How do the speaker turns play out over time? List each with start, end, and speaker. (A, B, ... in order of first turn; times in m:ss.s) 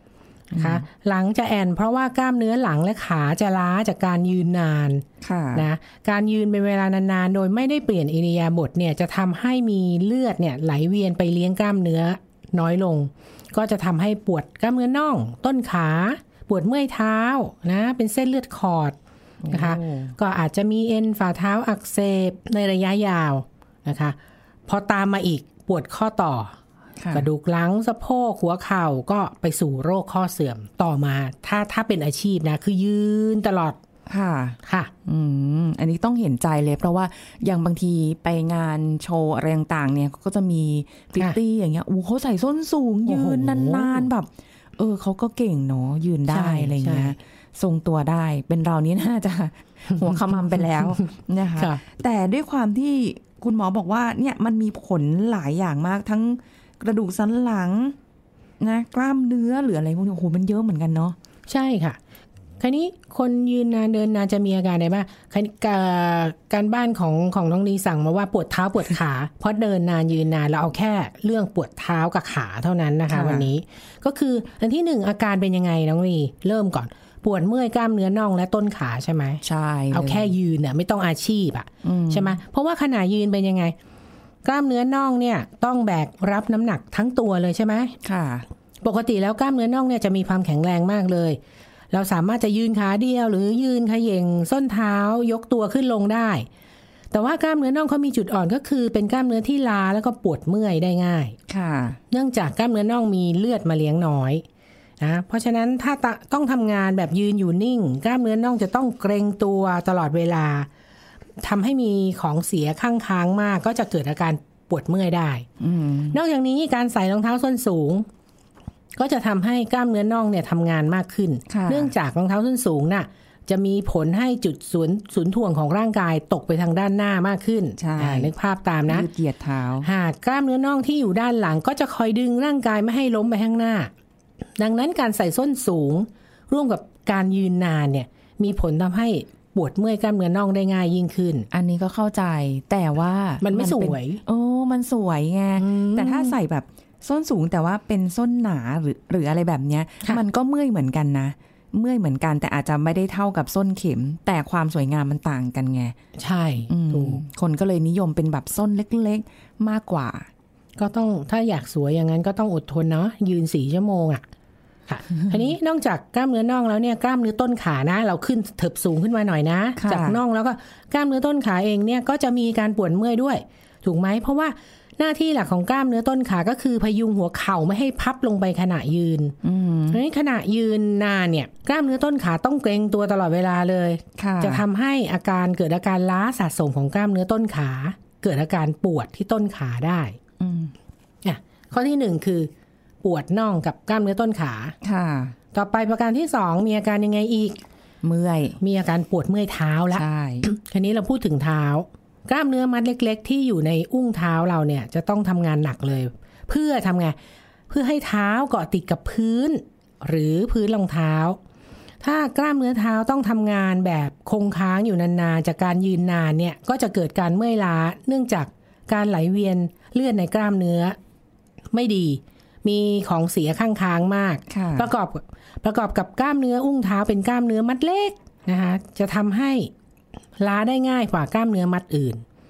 0:00.5-0:00.8 A
0:00.5-0:05.0 B
0:05.2-0:05.7 A
0:05.5-0:19.0 B
0:19.4-0:20.2 A
0:19.5-0:24.2 B
0:24.7-0:26.6 B
0:27.0-0:27.3 A
0:27.1-0:33.8 B
0:34.1-0:58.0 A
0:34.7-0:34.9 B
0:43.0-0:44.1 B
0:46.3-0:47.2 B
0:50.0-0:51.8 B
0:58.6-1:01.2 A
1:01.5-1:02.0 B
1:02.6-1:23.7 B
1:13.1-1:13.5 A
1:19.4-1:20.3 A
1:21.8-1:22.4 A
1:24.4-1:27.9 B
1:28.0-1:28.5 A
1:28.8-1:31.4 B
1:31.9-1:36.5 B
1:37.1-1:41.3 B
1:41.5-1:42.0 A
1:42.1-1:44.4 B
1:45.0-1:50.7 B
1:51.4-1:55.5 B
1:55.6-1:56.2 A
1:56.1-1:58.0 B
1:59.0-2:09.0 B
2:01.5-2:01.9 A
2:07.8-2:08.3 A
2:08.9-2:09.9 A
2:09.8-2:13.9 B
2:14.6-2:21.5 B
2:21.5-2:36.0 A
2:23.4-2:24.2 B
2:25.6-2:26.3 B
2:36.2-2:37.2 B
2:36.7-2:40.3 A
2:40.8-2:44.2 B
2:44.9-2:59.4 B
2:49.8-2:50.2 A
2:59.4-3:00.0 A
2:59.9-3:10.2 B
3:04.2-3:04.7 A
3:10.4-3:10.7 A
3:11.2-3:12.5 B
3:13.0-3:14.7 B
3:14.8-3:15.4 A
3:15.5-3:17.6 B
3:18.0-3:18.6 A
3:18.6-3:27.2 B
3:19.9-3:20.5 A
3:27.7-3:31.4 B
3:32.0-3:41.0 B
3:41.7-3:49.7 B
3:44.5-3:44.9 A
3:50.4-3:52.2 B